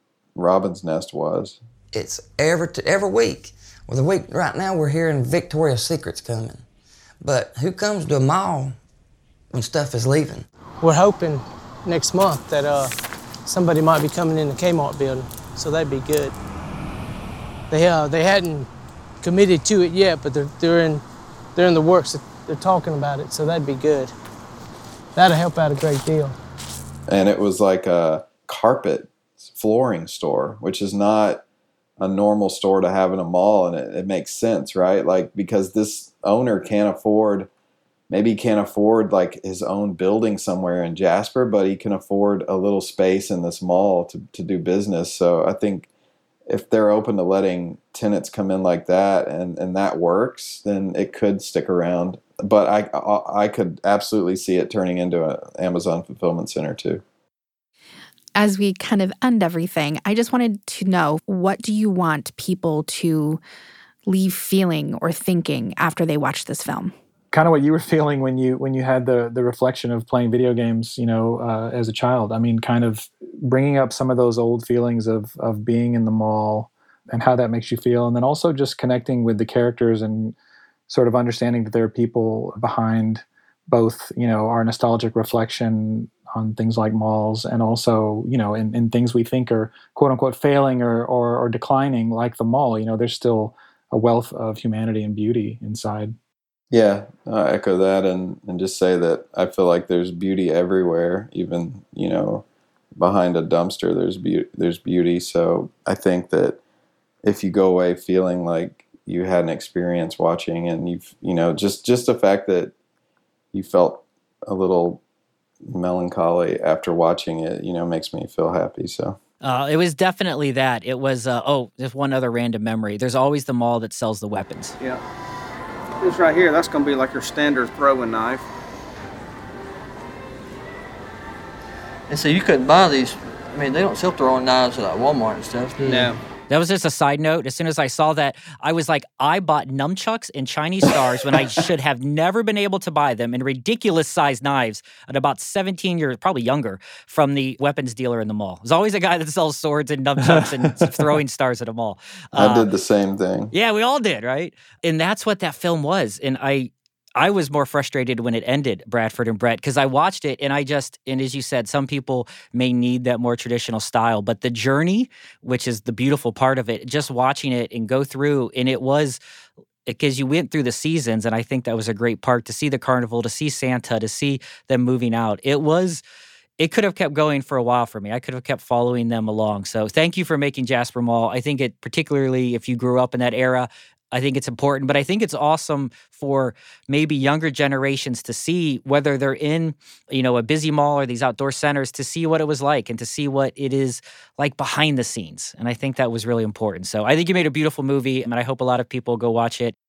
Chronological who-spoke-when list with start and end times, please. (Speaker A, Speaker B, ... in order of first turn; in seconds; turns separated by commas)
Speaker A: 0.3-1.6, Speaker B: 1.9-6.6, Speaker B: 7.2-8.8, Speaker B: 9.5-10.4, Speaker C: 10.8-12.9, Speaker C: 13.4-16.4, Speaker C: 17.7-18.7, Speaker C: 19.2-21.0, Speaker C: 21.5-24.1, Speaker C: 25.1-26.4, Speaker A: 27.1-31.4, Speaker A: 32.0-37.5, Speaker A: 38.1-45.9, Speaker A: 46.5-57.0, Speaker D: 58.4-63.4, Speaker D: 64.0-66.9, Speaker E: 67.3-80.3, Speaker E: 80.9-96.1, Speaker A: 96.7-102.4, Speaker A: 103.0-106.6, Speaker A: 107.2-112.7, Speaker A: 113.5-115.0, Speaker A: 115.6-119.2, Speaker F: 119.4-124.8, Speaker G: 126.0-128.4, Speaker H: 132.1-136.1, Speaker G: 135.8-136.2, Speaker F: 136.5-152.7, Speaker A: 152.3-153.5, Speaker F: 153.5-169.2, Speaker F: 169.8-176.0, Speaker F: 176.6-199.7